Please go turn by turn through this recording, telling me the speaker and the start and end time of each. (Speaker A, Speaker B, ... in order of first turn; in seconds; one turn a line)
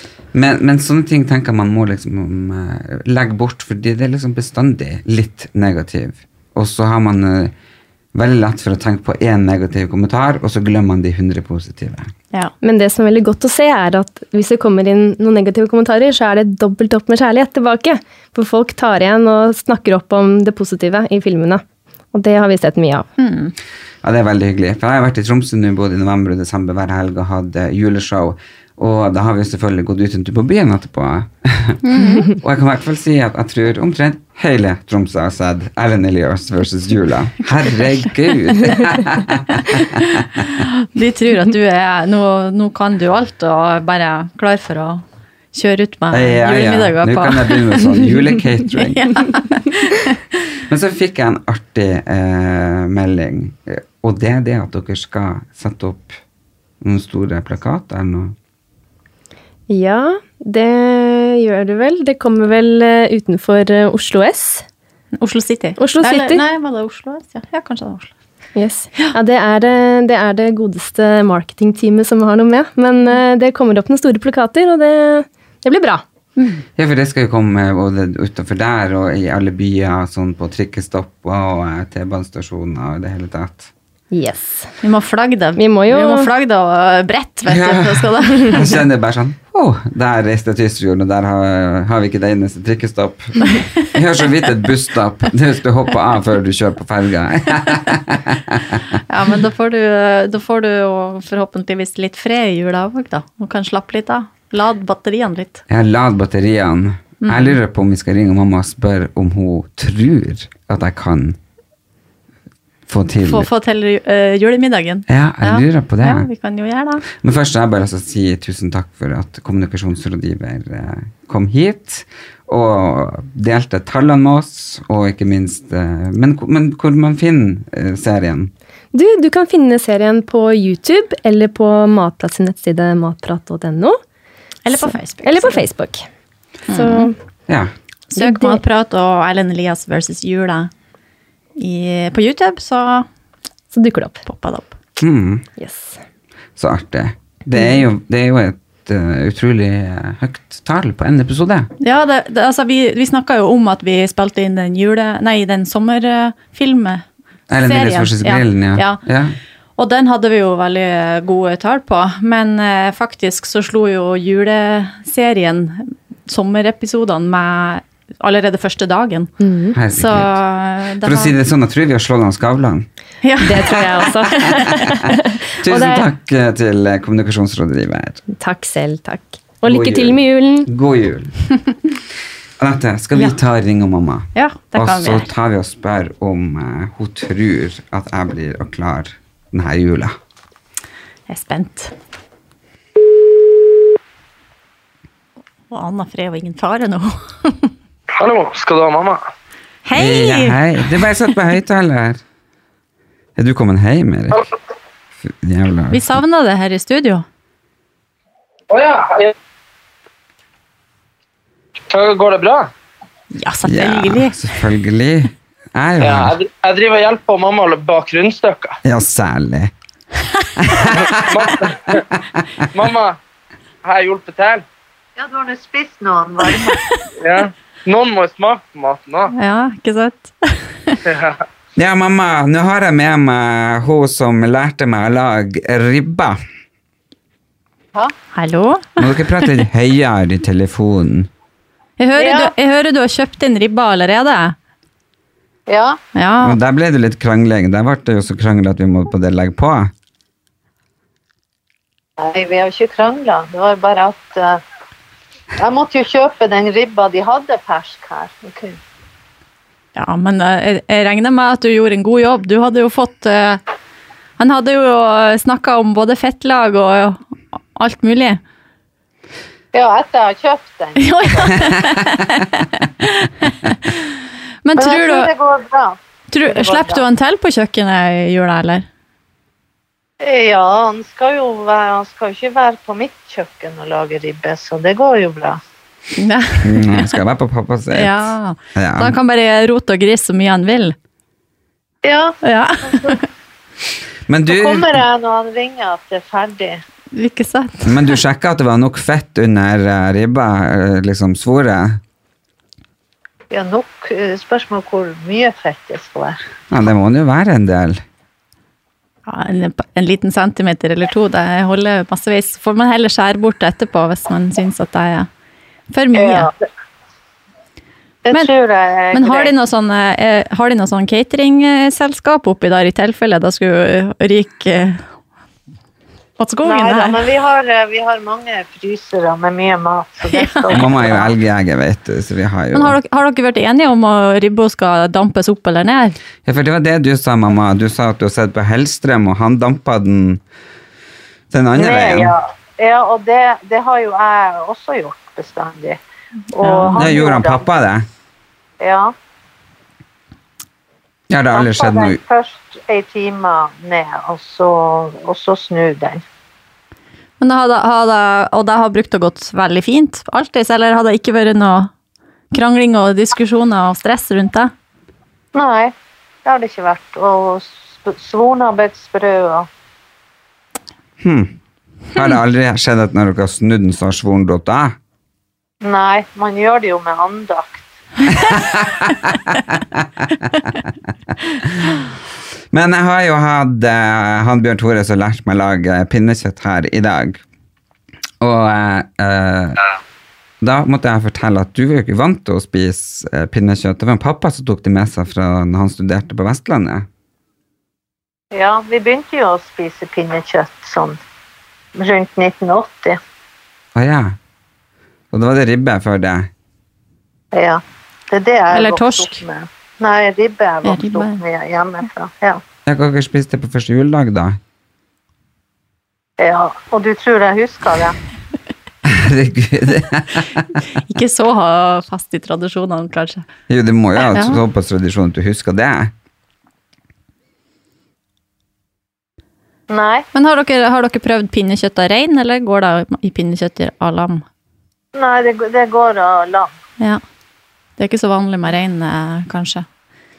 Speaker A: 0.3-7.5
Speaker A: 8.1-12.1
Speaker B: 12.6-23.1
Speaker C: 23.2-23.5
Speaker A: 24.0-31.8
Speaker C: 31.8-32.3
Speaker B: 32.0-32.4
Speaker A: 32.4-40.5
Speaker C: 40.9-48.1
Speaker A: 46.1-49.2
Speaker C: 48.8-50.2
Speaker A: 50.7-56.2
Speaker A: 56.8-58.4
Speaker B: 59.7-64.7
Speaker C: 65.2-68.1
Speaker B: 65.8-66.4
Speaker B: 68.6-76.0
Speaker C: 76.4-76.6
Speaker A: 76.8-83.7
Speaker B: 84.1-84.7
Speaker C: 84.8-88.7
Speaker B: 85.6-86.3
Speaker A: 87.5-99.0
Speaker C: 99.1-105.6
Speaker A: 105.7-111.4
Speaker C: 107.2-107.6
Speaker A: 112.9-113.5
Speaker C: 113.2-117.0
Speaker A: 115.1-116.3
Speaker A: 117.2-128.5
Speaker B: 128.9-134.0
Speaker C: 134.7-135.6
Speaker B: 134.7-136.1
Speaker C: 136.7-137.1
Speaker B: 136.7-137.2
Speaker C: 138.1-140.7
Speaker B: 138.2-138.6
Speaker C: 141.6-143.1
Speaker B: 143.7-144.2
Speaker C: 144.3-144.7
Speaker A: 145.0-145.4
Speaker B: 145.6-146.0
Speaker A: 146.6-151.7
Speaker C: 151.8-157.0
Speaker A: 157.5-159.4
Speaker C: 157.6-159.0
Speaker C: 159.8-169.3
Speaker B: 169.4-169.8
Speaker A: 169.8-170.4
Speaker C: 169.9-171.3
Speaker A: 171.0-172.9
Speaker C: 173.2-173.9
Speaker B: 173.4-176.1
Speaker A: 173.6-174.6
Speaker A: 175.6-178.2
Speaker B: 178.3-180.7
Speaker A: 179.7-181.3
Speaker A: 182.6-190.2
Speaker C: 184.3-185.3
Speaker C: 191.3-191.9
Speaker C: 195.7-197.7
Speaker D: 198.2-199.2
Speaker C: 199.9-200.6
Speaker A: 199.9-202.2
Speaker A: 203.4-204.4
Speaker A: 205.2-206.1
Speaker C: 205.9-207.3
Speaker D: 208.7-209.3
Speaker D: 211.9-212.7
Speaker C: 213.3-214.4
Speaker A: 213.7-216.4
Speaker D: 216.0-218.8
Speaker A: 218.8-219.7
Speaker A: 220.6-221.4
Speaker D: 220.9-222.0
Speaker D: 222.7-223.2
Speaker D: 223.8-224.7
Speaker E: 225.2-226.8
Speaker D: 227.2-229.3
Speaker C: 229.3-231.0
Speaker D: 231.1-231.4
Speaker A: 231.8-236.4
Speaker C: 238.3-239.5
Speaker A: 239.0-241.3
Speaker C: 242.0-244.6
Speaker E: 242.2-242.5
Speaker E: 245.7-246.0
Speaker C: 246.2-246.6
Speaker A: 246.4-249.9
Speaker E: 252.2-254.6
Speaker E: 255.6-258.8
Speaker C: 260.0-263.6
Speaker C: 264.4-267.2
Speaker C: 267.8-268.4
Speaker E: 269.7-271.5
Speaker C: 271.0-273.9
Speaker C: 274.6-275.3
Speaker E: 274.8-277.0
Speaker C: 276.3-278.9
Speaker E: 280.2-285.6
Speaker C: 286.2-287.1
Speaker A: 286.6-288.2
Speaker C: 287.9-291.0
Speaker A: 288.8-289.2
Speaker E: 292.0-292.4
Speaker C: 292.4-293.2
Speaker E: 292.9-293.1
Speaker A: 294.3-295.0
Speaker E: 294.5-296.8
Speaker C: 297.1-297.9
Speaker A: 297.9-302.0
Speaker E: 303.5-306.4
Speaker A: 306.7-308.0
Speaker C: 309.3-315.3
Speaker C: 315.9-316.5
Speaker E: 316.1-316.6
Speaker E: 318.2-319.5
Speaker C: 319.1-325.1
Speaker C: 326.4-327.2
Speaker E: 326.6-331.3
Speaker C: 330.3-330.9
Speaker A: 330.7-333.0
Speaker C: 332.7-336.2
Speaker A: 336.4-340.4
Speaker A: 341.5-342.3
Speaker E: 341.8-346.0
Speaker E: 346.5-347.7
Speaker C: 346.6-347.1
Speaker A: 346.9-348.1
Speaker E: 348.8-349.1
Speaker A: 351.3-352.2
Speaker E: 351.5-356.2
Speaker C: 357.4-361.9
Speaker C: 362.5-364.7
Speaker E: 365.5-365.9
Speaker E: 366.4-369.7
Speaker A: 371.2-371.6
Speaker A: 372.1-375.0
Speaker E: 375.8-377.9
Speaker A: 378.3-379.4
Speaker A: 380.0-380.7
Speaker A: 382.7-387.4
Speaker A: 388.4-389.8
Speaker A: 390.6-397.1
Speaker E: 398.5-401.2
Speaker E: 402.0-403.2
Speaker A: 403.9-404.4
Speaker A: 405.3-406.5
Speaker E: 407.5-412.6
Speaker C: 408.7-409.4
Speaker C: 410.8-411.4
Speaker A: 412.9-414.6
Speaker E: 416.4-418.2
Speaker A: 419.1-420.5
Speaker C: 421.1-423.5
Speaker A: 423.7-426.1
Speaker C: 424.2-424.6
Speaker E: 429.9-430.3
Speaker C: 430.3-434.4
Speaker E: 435.1-436.7
Speaker C: 438.0-439.9